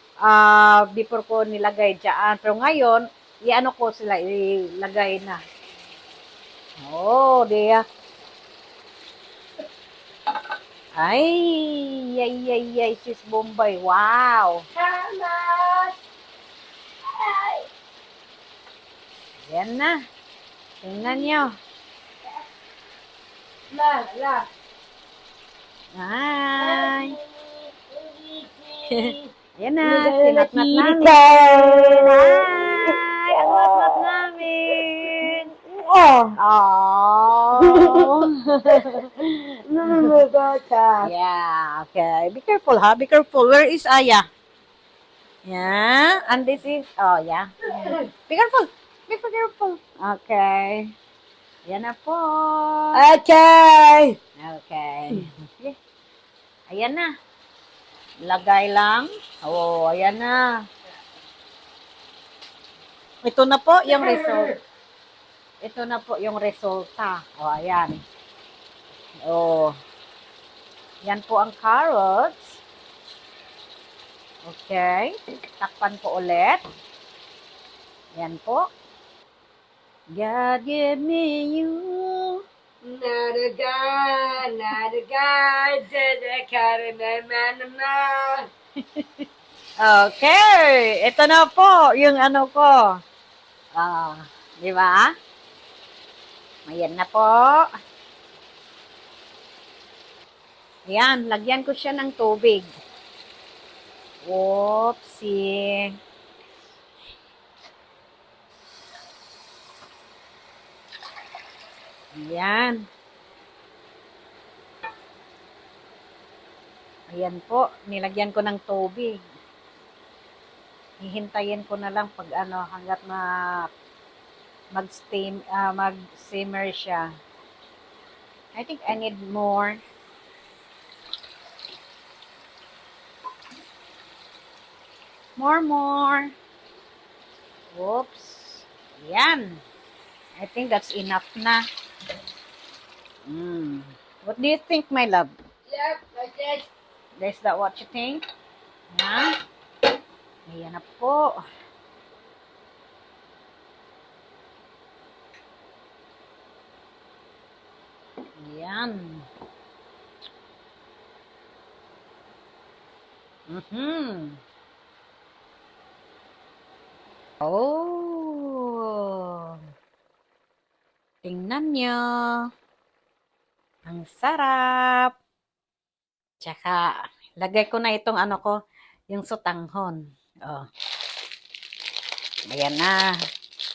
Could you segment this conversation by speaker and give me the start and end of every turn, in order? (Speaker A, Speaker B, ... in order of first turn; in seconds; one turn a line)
Speaker A: 0.2-5.4
Speaker A: 6.8-7.8
Speaker A: 11.0-14.6
Speaker B: 14.7-15.9
Speaker B: 17.0-17.7
Speaker A: 19.5-20.0
Speaker A: 20.8-21.5
Speaker B: 21.0-21.4
Speaker B: 23.7-24.5
Speaker A: 25.9-27.1
Speaker B: 26.6-29.3
Speaker A: 28.9-35.5
Speaker B: 29.8-36.4
Speaker A: 36.4-40.0
Speaker B: 37.6-39.1
Speaker B: 39.6-41.1
Speaker A: 41.0-44.2
Speaker A: 45.5-50.9
Speaker B: 47.8-48.0
Speaker A: 51.7-53.0
Speaker B: 52.9-54.2
Speaker A: 54.4-55.8
Speaker A: 56.7-57.1
Speaker A: 58.2-60.5
Speaker A: 63.2-64.6
Speaker B: 63.9-64.5
Speaker A: 65.6-68.0
Speaker A: 69.2-69.7
Speaker A: 71.0-72.6
Speaker A: 74.4-76.6
Speaker A: 78.2-78.7
Speaker A: 80.1-82.4
Speaker B: 82.8-88.5
Speaker A: 89.8-92.9
Speaker A: 93.7-95.1
Speaker A: 96.7-97.7
Speaker A: 100.9-102.7
Speaker A: 104.2-105.9
Speaker A: 112.1-112.8
Speaker A: 117.1-119.1
Speaker A: 121.0-123.7
Speaker A: 124.7-127.1
Speaker A: 128.5-129.8
Speaker A: 135.4-136.3
Speaker A: 137.7-139.6
Speaker A: 140.4-141.6
Speaker A: 143.2-145.3
Speaker B: 145.7-146.7
Speaker A: 147.2-148.2
Speaker A: 148.9-149.3
Speaker A: 150.5-151.4
Speaker A: 158.4-159.3
Speaker A: 163.5-164.4
Speaker A: 167.4-169.6
Speaker A: 171.2-172.4
Speaker A: 173.8-175.1
Speaker A: 176.4-178.5
Speaker A: 179.1-180.6
Speaker A: 182.5-183.2